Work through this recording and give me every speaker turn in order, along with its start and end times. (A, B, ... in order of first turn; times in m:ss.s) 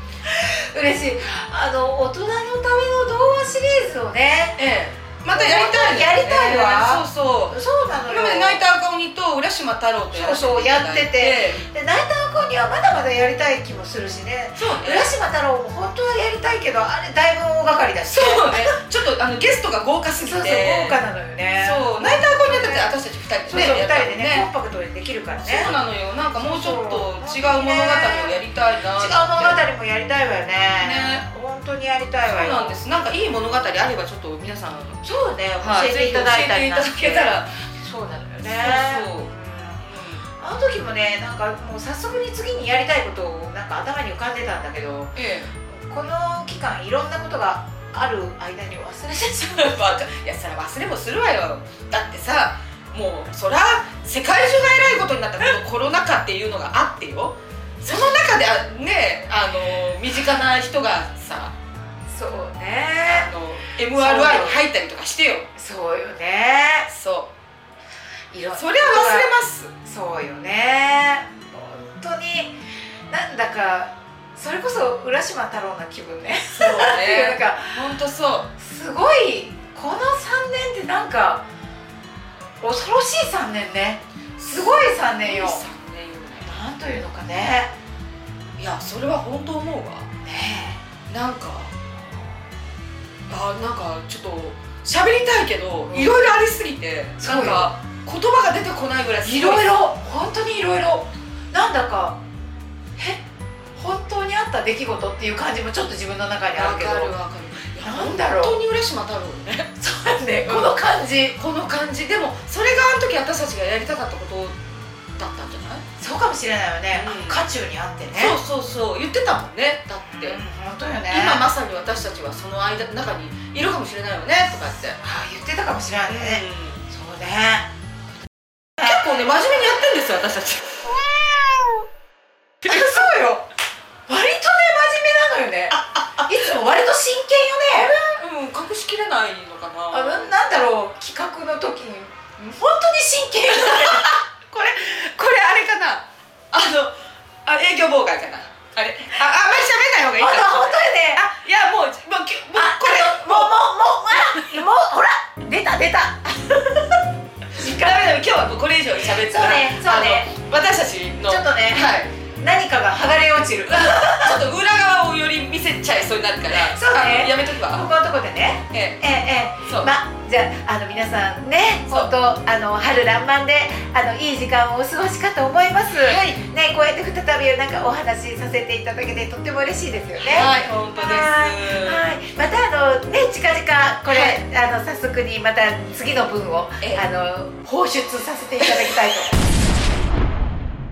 0:00.2-0:04.6 A
0:04.6-0:11.6 B
0:05.3-0:08.6 A
0:10.1-0:18.8 A
0:14.6-0:15.1 B
0:18.1-0:21.0 B
0:20.2-0:22.9 A
0:21.6-0:24.5 B
0:23.5-0:25.7 A
0:25.4-0:29.6 B
0:26.4-0:28.4 A
0:29.0-0:32.8 A
0:30.8-0:31.2 B
0:32.2-0:35.0 B
0:35.0-0:39.8 A
0:35.6-0:37.5 B
0:38.4-0:39.3 B
0:39.8-0:40.2 B
0:40.4-0:50.0 A
0:45.1-0:45.5 B
0:49.2-1:01.5 B
1:02.1-1:03.3 A
1:03.0-1:05.5 B
1:03.9-1:04.6 A
1:05.6-1:06.9 A
1:06.9-1:07.3 B
1:08.3-1:17.8 A
1:08.5-1:09.7 B
1:16.5-1:18.5 B
1:18.6-1:21.4 A
1:22.6-1:25.6 A
1:24.4-1:26.6 B
1:26.4-1:27.7 A
1:28.6-1:30.1 B
1:30.2-1:30.8 A
1:31.1-1:31.7 B
1:33.3-1:39.7 B
1:35.9-1:36.3 A
1:37.2-1:37.7 A
1:39.2-1:42.2 A
1:43.0-1:43.2 A
1:43.8-1:47.2 A
1:46.5-1:49.7 B
1:47.8-1:48.6 A
1:49.8-1:51.4 A
1:50.4-1:54.6 B
1:55.2-1:55.8 B
1:56.0-1:58.4 A
1:56.9-1:57.4 B
1:58.1-2:00.4 B
2:00.1-2:01.5 A
2:01.0-2:05.0 B
2:05.0-2:07.7 A
2:06.1-2:06.8 B
2:08.8-2:10.9 B
2:12.6-2:13.4 A
2:14.1-2:18.0 A
2:15.7-2:16.3 B
2:17.7-2:20.3 B
2:19.9-2:25.7 A
2:23.5-2:24.1 B
2:25.1-2:26.9 B
2:27.4-2:34.6 B
2:30.2-2:31.2 A
2:32.5-2:36.8 A
2:37.5-2:38.0 A
2:37.5-2:42.1 B
2:39.2-2:40.3 A
2:41.3-2:44.4 A
2:43.7-2:47.9 B
2:46.5-3:09.4 A
2:48.7-2:49.0 B
2:49.6-2:49.9 B
2:55.9-2:56.5 B
3:00.2-3:02.1 B
3:04.1-3:04.4 B
3:06.8-3:07.0 B